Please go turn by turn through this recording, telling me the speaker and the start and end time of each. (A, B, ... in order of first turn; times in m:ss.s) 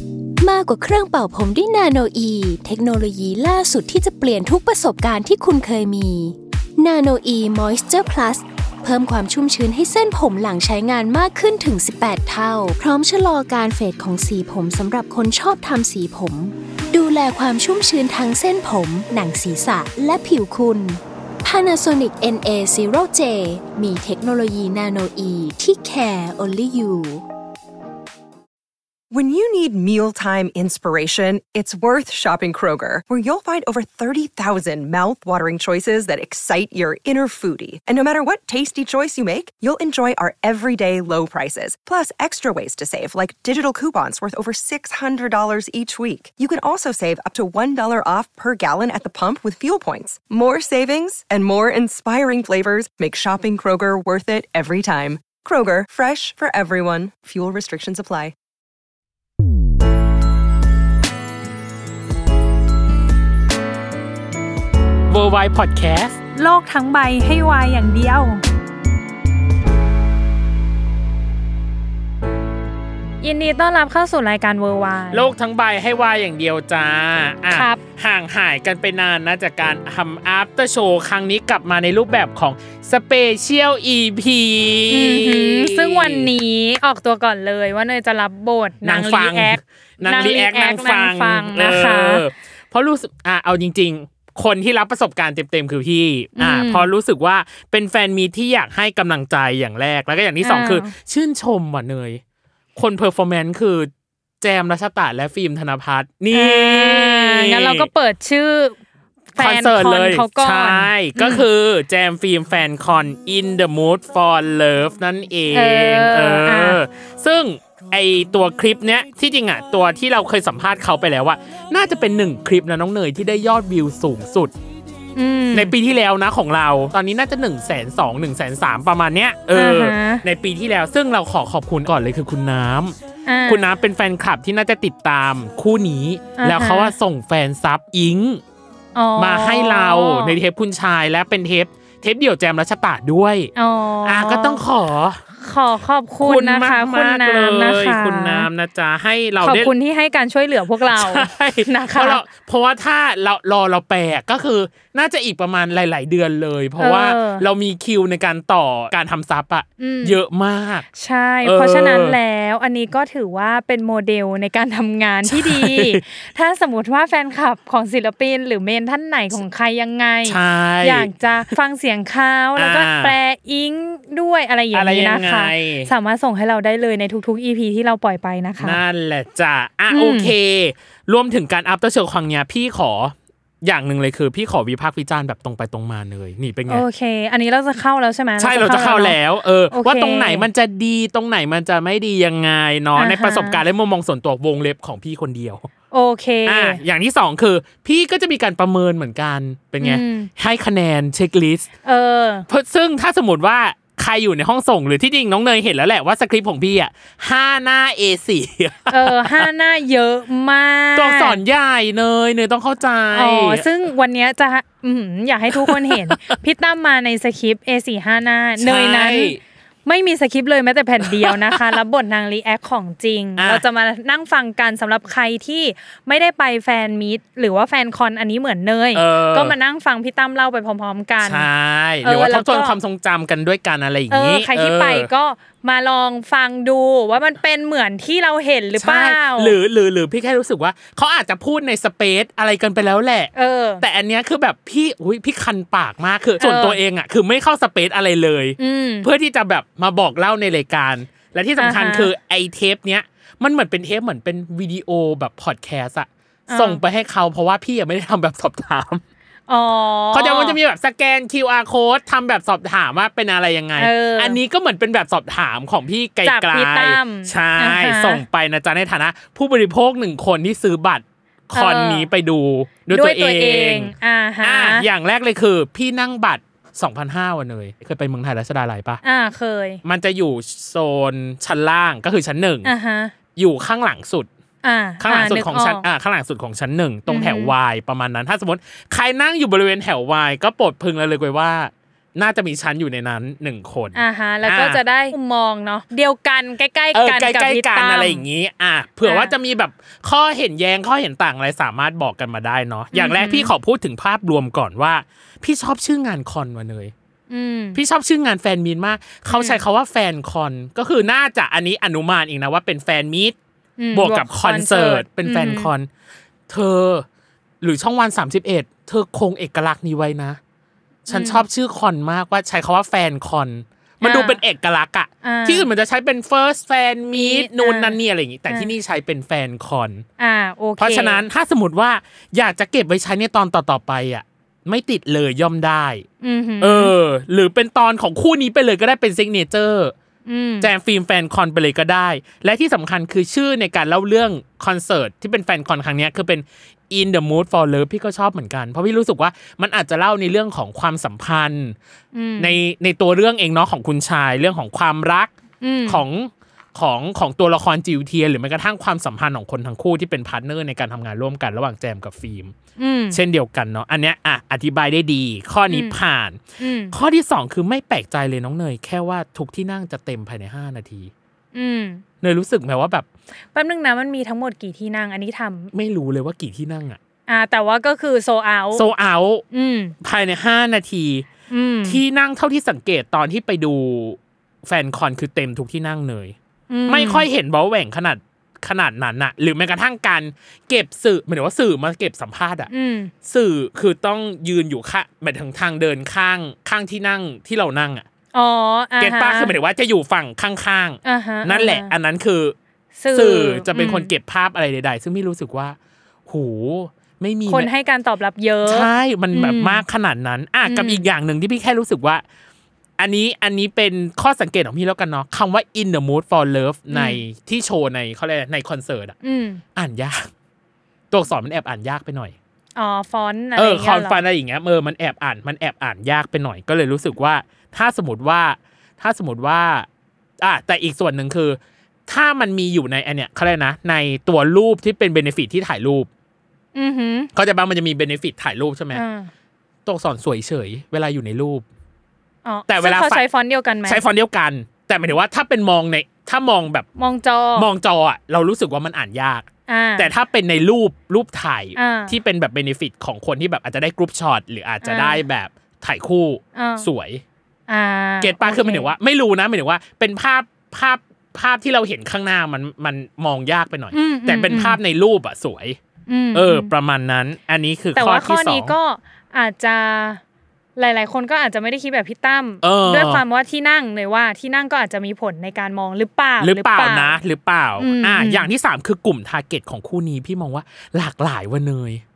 0:00.4-0:27.2 A
0:29.1-0:58.4 B
1:05.1-1:06.2 C
1:06.3-1:08.4 D
1:13.2-1:15.3 D
1:15.1-1:26.3 C
1:17.5-1:17.8 D
1:24.9-1:32.2 D
1:28.8-1:42.2 C
1:36.4-1:36.9 D
1:40.4-1:40.9 D
1:42.8-1:43.9 C
1:44.4-1:47.9 C
1:46.3-1:48.8 D
1:49.4-1:51.4 D
1:49.4-2:04.5 C
1:55.5-1:56.8 D
2:05.2-2:05.7 D
2:05.5-2:18.4 C
2:09.5-2:10.2 D
2:13.3-2:13.7 D
2:16.4-2:16.9 D
2:19.0-2:20.4 D
2:19.2-2:23.5 C
2:23.6-2:24.6 D
2:24.0-2:25.2 C
2:25.4-2:28.5 D
2:26.2-2:29.7 C
2:29.4-2:32.2 D
2:30.9-2:40.9 C
2:36.8-2:37.4 D
2:39.8-2:40.2 D
2:41.0-2:58.8 D
2:41.4-2:42.2 C
2:45.3-2:46.0 C
2:50.2-2:51.1 C
2:52.6-2:53.2 C
2:54.7-2:55.9 C
2:58.6-3:06.8 C
2:59.9-3:00.3 D
3:06.7-3:09.2 D
3:08.4-3:15.7 C
3:09.7-3:10.5 D
3:13.0-3:13.6 D
3:15.9-3:16.8 D
3:16.5-3:21.7 C
3:19.8-3:20.3 D
3:21.8-3:22.5 D
3:22.5-3:29.5 C
3:28.9-3:31.4 D
3:31.0-3:33.6 C
3:33.1-3:51.5 D
3:35.5-3:36.3 C
3:38.6-3:39.4 C
3:41.0-3:41.8 C
3:43.4-3:43.6 C
3:48.9-3:49.6 C
3:51.2-3:55.1 C
3:52.0-3:52.7 D
3:54.1-3:59.6 D
3:58.8-4:19.0 C
4:03.4-4:03.8 D
4:06.4-4:06.8 D
4:08.6-4:09.1 D
4:11.6-4:12.1 D
4:16.5-4:16.8 D
4:19.5-4:20.6 D
4:20.1-4:33.9 C
4:23.8-4:24.4 D
4:26.2-4:28.2 D
4:31.5-4:32.1 D
4:32.9-4:34.9 D
4:34.4-4:39.0 C
4:39.0-4:39.8 D
4:39.8-4:42.7 C
4:42.6-4:43.1 D
4:43.4-4:44.3 C
4:44.6-4:45.8 D
4:45.0-4:54.8 C
4:47.1-4:47.5 D
4:54.0-4:58.2 D
4:56.9-5:06.9 C
4:59.0-4:59.3 D
5:02.9-5:03.5 D
5:07.3-5:07.8 D
5:07.8-5:13.4 C
5:09.3-5:09.6 D
5:13.8-5:15.7 D
5:13.9-5:15.9 C
5:16.5-5:17.0 C
5:17.6-5:20.4 C
5:21.1-5:30.0 C
5:21.1-5:21.4 D
5:24.0-5:24.4 D
5:25.2-5:25.7 D
5:27.1-5:28.0 D
5:30.2-5:31.2 D
5:30.8-5:36.1 C
5:36.2-5:36.9 D
5:36.6-5:39.9 C
5:40.3-5:40.7 D
5:40.6-5:51.8 C
5:52.2-5:52.6 D
5:52.4-5:55.3 C
5:55.6-5:56.0 D
5:55.9-6:02.5 C
6:02.8-6:03.2 D
6:03.1-6:06.4 C
6:05.7-6:06.0 D
6:06.6-6:06.9 D
6:06.9-6:11.1 C
6:11.5-6:12.0 D
6:12.2-6:13.1 C
6:13.5-6:15.7 D
6:15.7-6:17.0 C
6:17.3-6:18.9 D
6:18.8-6:19.4 C
6:19.5-6:20.0 D
6:20.0-6:21.3 C
6:21.5-6:22.0 D
6:21.8-6:26.4 C
6:26.7-6:27.3 D
6:26.9-6:32.7 C
6:32.7-6:33.1 D
6:33.2-6:38.1 C
6:38.3-6:39.5 D
6:39.0-6:42.6 C
6:41.0-6:41.9 D
6:43.0-6:44.1 D
6:43.1-6:47.7 C
6:47.5-6:49.8 D
6:48.6-6:52.2 C
6:50.6-6:51.1 D
6:53.0-6:59.2 C
6:56.9-6:57.2 D
6:59.2-6:59.6 D
6:59.8-7:00.3 C
7:01.1-7:02.4 C
7:02.8-7:04.2 D
7:03.6-7:09.9 C
7:10.4-7:16.1 C
7:16.8-7:17.3 D
7:17.3-7:19.0 C
7:18.9-7:19.3 D
7:19.9-7:21.7 C
7:22.4-7:24.0 D
7:22.7-7:23.2 C
7:23.9-7:26.9 C
7:27.0-7:27.7 D
7:27.6-7:37.2 C
7:29.7-7:30.1 D
7:31.8-7:32.2 D
7:34.8-7:35.2 D
7:36.6-7:36.9 D
7:37.7-7:38.9 D
7:38.2-7:45.8 C
7:43.9-7:44.8 D
7:46.1-7:46.7 D
7:46.3-7:48.8 C
7:48.0-7:50.2 D
7:50.8-7:57.2 D
7:52.6-7:53.2 C
7:56.4-8:02.0 C
7:57.8-7:58.5 D